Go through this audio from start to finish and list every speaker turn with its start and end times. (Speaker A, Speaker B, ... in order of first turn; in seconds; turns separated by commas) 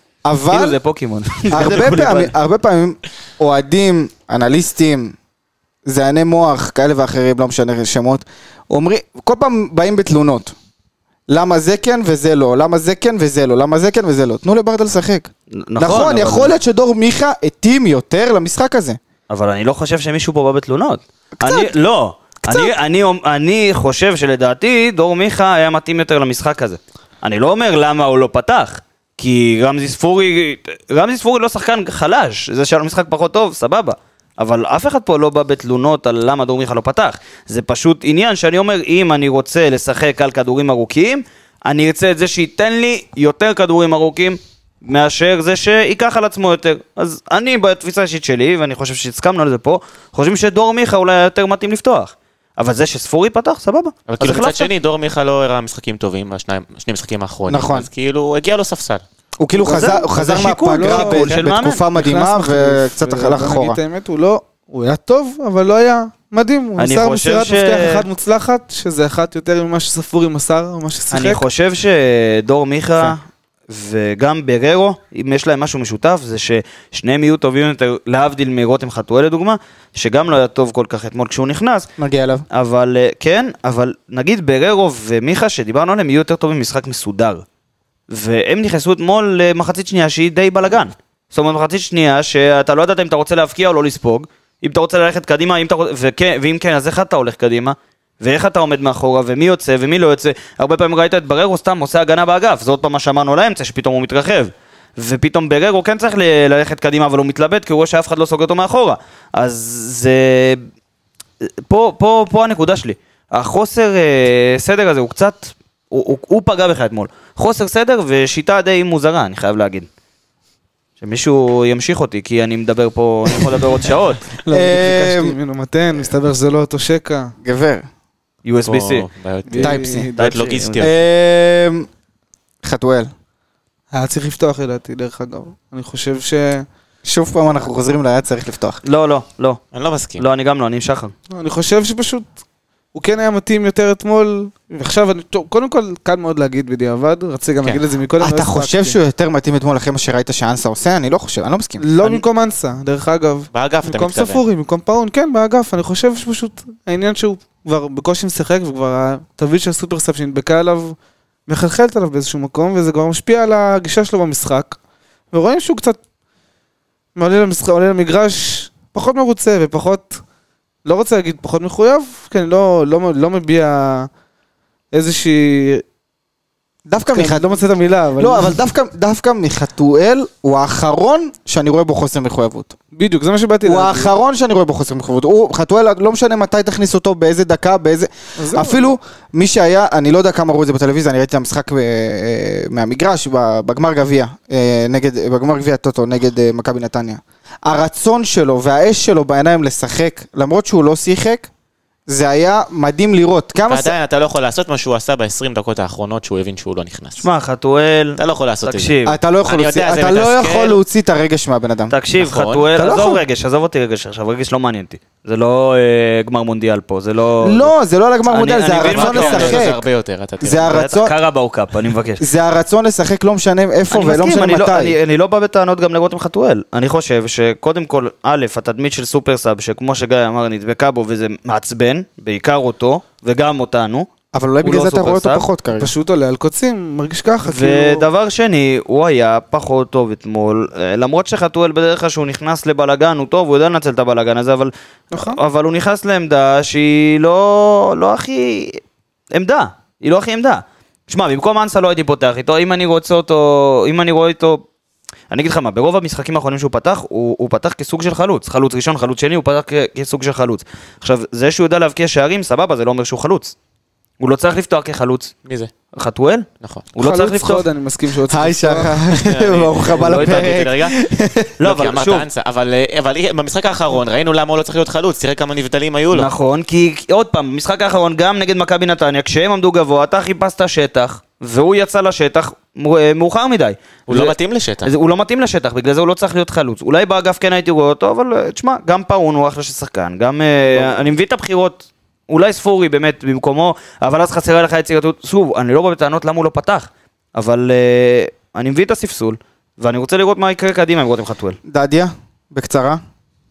Speaker A: 0.2-0.8, Speaker B: 0.5-2.3, Speaker A: 1.5-5.1, Speaker A: 5.8-10.5, Speaker A: 11.3-19.0, Speaker B: 15.5-16.5, Speaker B: 19.3-54.7, Speaker A: 21.4-21.7, Speaker A: 22.4-22.7, Speaker C: 54.1-59.0, Speaker A: 57.5-57.9, Speaker A: 59.4-63.8, Speaker D: 59.6-61.4, Speaker B: 59.7-61.8, Speaker D: 61.9-71.4, Speaker B: 66.8-68.0, Speaker B: 71.1-81.9, Speaker A: 82.0-82.4, Speaker B: 82.5-87.4, Speaker B: 88.1-110.6, Speaker B: 111.4-119.9, Speaker B: 121.0-124.3, Speaker D: 124.4-127.3, Speaker A: 124.5-125.4, Speaker A: 127.4-127.8, Speaker B: 128.4-129.1, Speaker C: 128.7-130.9, Speaker D: 129.5-130.2, Speaker A: 129.6-130.1, Speaker B: 130.2-130.9, Speaker A: 130.8-131.9, Speaker A: 132.6-133.1, Speaker D: 133.9-136.7, Speaker A: 137.0-138.8, Speaker B: 138.8-139.6, Speaker C: 139.7-140.2, Speaker B: 140.2-141.1, Speaker D: 141.3-142.3, Speaker D: 142.9-148.9, Speaker A: 148.2-151.9, Speaker D: 151.8-160.9, Speaker C: 153.5-154.4, Speaker D: 161.5-164.8, Speaker D: 165.3-166.0, Speaker D: 167.1-170.2, Speaker D: 170.8-174.1, Speaker D: 174.9-175.8, Speaker A: 176.9-177.6, Speaker D: 177.1-178.6, Speaker A: 178.2-182.7, Speaker D: 182.9-184.1, Speaker A: 183.6-201.5, Speaker D: 188.4-188.9, Speaker A: 202.1-203.9, Speaker C: 203.7-207.2, Speaker B: 207.2-209.2, Speaker C: 208.2-208.9, Speaker A: 209.1-211.9, Speaker C: 209.4-210.8, Speaker B: 211.9-217.7, Speaker C: 212.2-212.7, Speaker A: 212.8-213.2, Speaker A: 217.4-219.8, Speaker B: 218.3-219.6, Speaker C: 218.8-220.8, Speaker A: 220.4-221.1, Speaker B: 220.7-222.2, Speaker A: 222.2-224.9, Speaker B: 223.9-234.1, Speaker A: 234.3-235.9, Speaker B: 234.6-235.4, Speaker D: 235.8-238.1, Speaker B: 237.4-248.8, Speaker D: 245.1-245.4, Speaker B: 249.3-254.6, Speaker B: 255.3-263.5, Speaker B: 264.2-265.3, Speaker C: 265.4-265.7, Speaker B: 265.9-267.7, Speaker C: 266.6-266.9, Speaker D: 267.0-269.1, Speaker A: 268.3-271.5, Speaker C: 269.1-276.3, Speaker B: 269.9-270.6, Speaker B: 271.6-272.3, Speaker B: 276.1-301.6, Speaker C: 284.1-284.9, Speaker A: 301.6-303.0